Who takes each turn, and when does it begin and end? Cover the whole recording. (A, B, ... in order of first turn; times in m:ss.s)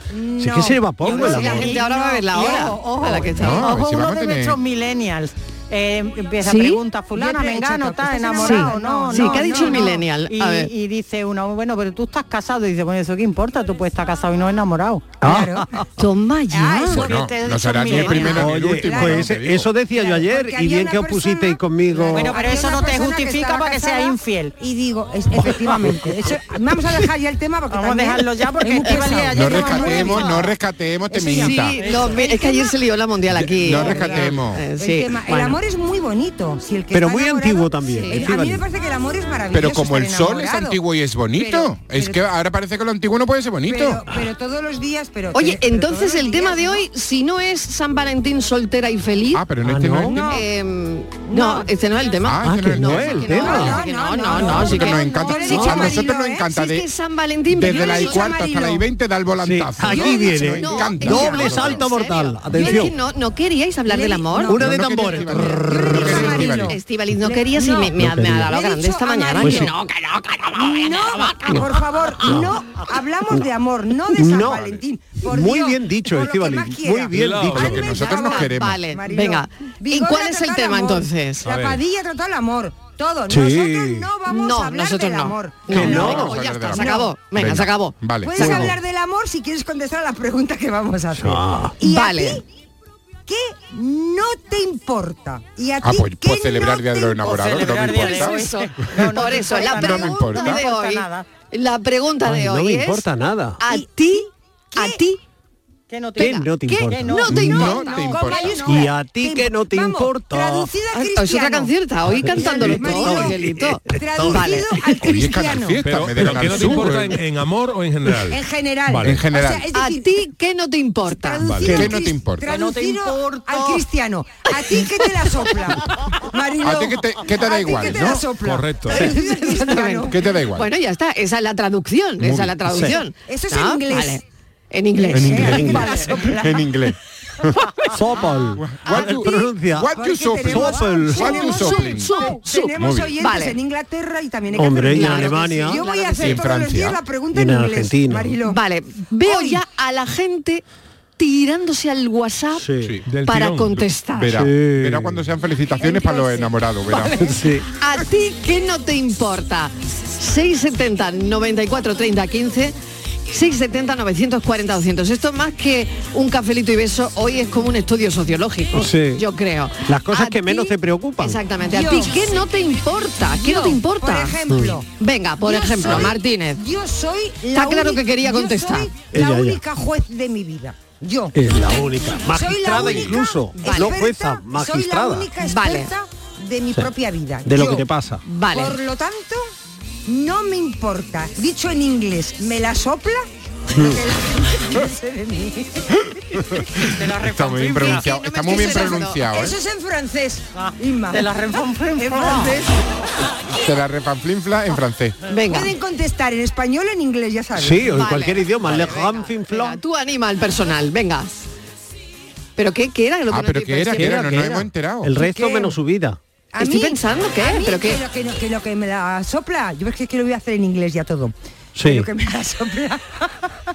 0:00.1-0:02.8 A
0:00.4-0:01.7 B
0:01.0-0:15.1 C
0:01.2-0:03.8 D
0:03.3-0:04.6 E
0:06.4-0:06.8 D
0:07.1-0:10.0 A
0:08.4-0:10.7 D
0:15.2-0:15.5 B
0:15.2-0:15.7 A
0:16.0-0:17.1 D
0:16.5-0:17.2 A
0:16.9-0:19.7 E
0:17.0-0:18.4 C
0:17.9-0:19.4 A
0:18.3-0:22.4 B
0:19.9-0:30.5 A
0:22.1-0:24.5 C
0:27.7-0:30.5 C
0:29.3-0:31.8 E
0:31.1-0:35.6 D
0:31.4-0:32.7 C
0:32.2-0:32.5 A
0:33.3-0:34.6 E
0:33.7-0:34.2 A
0:33.8-0:34.3 C
0:34.8-0:40.8 A
0:36.9-0:38.6 B
0:37.9-0:38.3 D
0:39.5-0:44.0 E
0:41.4-0:42.2 A
0:43.7-0:46.8 A
0:45.3-0:49.4 D
0:49.3-0:50.2 E
0:49.6-0:50.2 B
0:50.0-0:50.4 A
0:50.2-0:58.3 D
0:51.3-0:51.7 A
0:52.2-0:53.7 E
0:52.4-0:53.8 B
0:53.2-0:56.5 A
0:54.3-0:56.9 E
0:54.4-0:54.7 B
0:57.5-1:01.8 E
0:57.6-0:58.8 A
0:59.4-1:02.9 B
0:59.9-1:01.4 A
1:00.0-1:04.6 D
1:02.6-1:02.9 A
1:03.9-1:09.7 A
1:04.5-1:06.6 B
1:04.5-1:06.7 E
1:06.7-1:11.6 D
1:08.0-1:08.5 B
1:09.4-1:09.7 B
1:10.6-1:27.1 A
1:12.2-1:12.5 B
1:14.1-1:14.7 B
1:15.2-1:17.8 B
1:17.1-1:17.8 F
1:17.6-1:18.8 E
1:17.8-1:21.4 D
1:21.4-1:21.8 F
1:23.3-1:24.1 B
1:24.2-1:28.6 D
1:25.7-1:26.4 B
1:25.8-1:28.7 E
1:28.2-1:32.4 A
1:28.4-1:28.7 B
1:31.2-1:31.8 B
1:31.8-1:32.4 D
1:33.3-1:37.6 A
1:35.8-1:40.6 E
1:37.2-1:41.3 C
1:37.8-1:43.0 D
1:42.2-1:43.6 B
1:43.6-1:45.2 D
1:43.6-1:45.0 A
1:45.9-1:48.5 C
1:46.2-1:47.6 B
1:46.2-1:47.8 D
1:47.3-1:53.4 A
1:47.4-1:48.7 E
1:48.6-1:50.7 B
1:50.9-1:54.9 D
1:52.1-1:54.6 B
1:53.9-1:55.8 A
1:55.0-1:57.2 E
1:55.8-1:59.2 F
1:56.2-1:56.9 B
1:58.3-2:00.2 A
1:59.0-1:59.7 E
1:59.7-2:01.5 D
2:01.0-2:10.2 A
2:01.4-2:01.8 F
2:01.6-2:02.4 E
2:02.4-2:03.8 C
2:06.6-2:08.2 E
2:08.4-2:09.1 F
2:09.0-2:15.9 D
2:10.0-2:10.7 E
2:12.2-2:12.8 E
2:12.6-2:12.9 B
2:12.8-2:14.2 A
2:15.0-2:16.7 A
2:15.1-2:17.6 E
2:15.4-2:16.0 B
2:17.9-2:21.4 B
2:18.6-2:23.1 E
2:18.9-2:19.4 A
2:19.9-2:28.6 A
2:21.2-2:23.6 D
2:24.5-2:26.3 B
2:24.9-2:26.3 D
2:26.2-2:27.0 E
2:27.3-2:28.4 B
2:28.4-2:30.6 D
2:29.2-2:29.6 A
2:31.2-2:32.7 D
2:32.5-2:32.9 B
2:33.0-2:33.9 F
2:33.2-2:34.4 D
2:34.1-2:37.3 E
2:34.3-2:35.2 B
2:35.8-2:36.5 A
2:37.2-2:37.7 B
2:37.7-2:42.8 D
2:43.3-2:54.4 D
2:48.7-2:49.2 B
2:49.8-2:51.4 B
2:51.7-2:52.4 A
2:53.2-2:54.9 A
2:54.5-2:54.7 B
2:55.0-2:56.6 D
2:55.4-3:01.4 A
2:57.5-2:58.9 D
2:59.1-2:59.6 B
3:01.3-3:05.3 B
3:02.2-3:07.8 A
3:03.6-3:04.0 D
3:05.4-3:05.9 D
3:07.4-3:08.2 B
3:08.2-3:08.8 D
3:08.5-3:09.5 A
3:10.0-3:16.0 A
3:16.8-3:19.6 E
3:16.8-3:18.1 C
3:17.8-3:19.3 D
3:18.5-3:21.4 A
3:20.6-3:22.6 C
3:22.0-3:22.7 A
3:23.6-3:25.2 E
3:25.3-3:25.7 D
3:25.5-3:28.0 A
3:27.6-3:29.8 B
3:27.9-3:31.4 D
3:32.6-3:34.2 D
3:33.3-3:35.1 E
3:33.9-3:36.2 B
3:35.2-3:35.7 A
3:36.5-3:43.2 A
3:36.6-3:38.0 D
3:41.7-3:42.1 B